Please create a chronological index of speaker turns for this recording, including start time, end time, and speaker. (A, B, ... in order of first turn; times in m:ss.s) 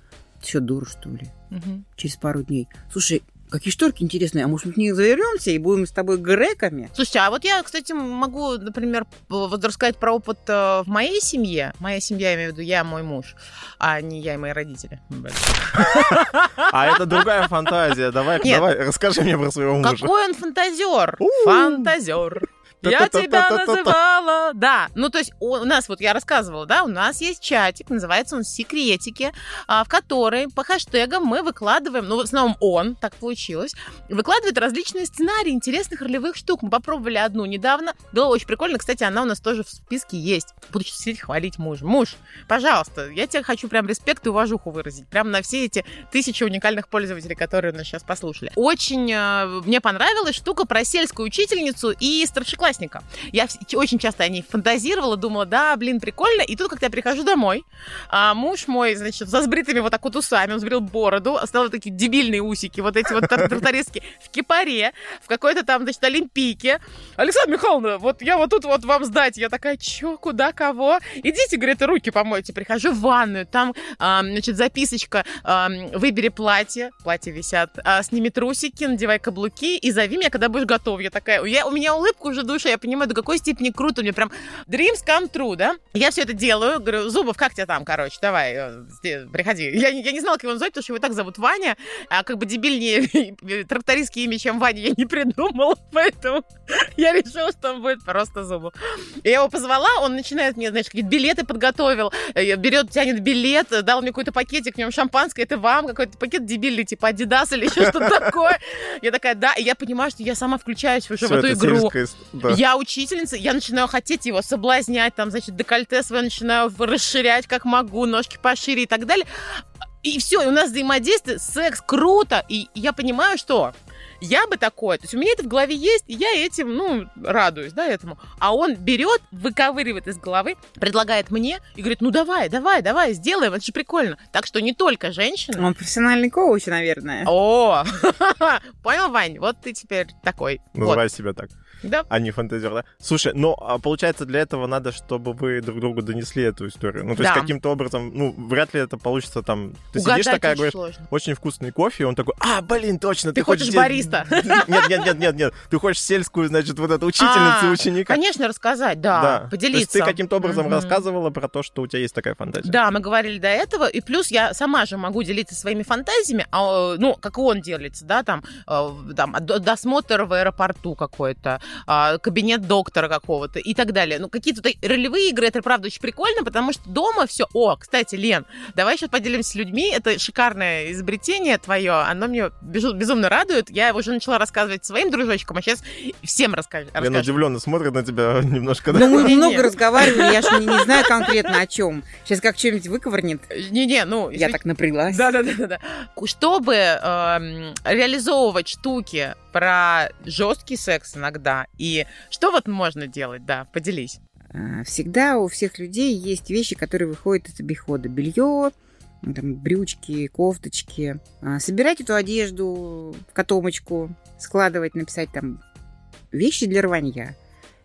0:00.4-0:01.3 A
0:01.5-0:01.8 B
0:02.0-0:06.9 A
0:06.9-0:17.4 B
0:15.8-0:20.1 C
0:18.4-0:18.7 B
0:19.8-1:51.9 B
0:21.2-0:21.9 C
0:22.8-0:24.0 C
1:51.2-1:52.6 C
1:52.5-2:15.7 B
2:15.6-2:17.3 A
2:17.2-2:21.0 B
2:20.7-2:21.5 C
2:22.1-2:38.2 C
2:27.2-2:27.5 B
2:29.9-2:31.0 B
2:33.3-2:35.1 B
2:37.2-2:41.0 B
2:39.1-2:42.8 C
2:42.6-3:07.4 B
3:07.0-3:09.4 C
3:08.9-3:13.5 A
3:08.9-3:11.5 B
3:13.5-3:24.2 B
3:14.3-3:15.3 A
3:24.5-3:35.6 A
3:36.3-3:37.4 A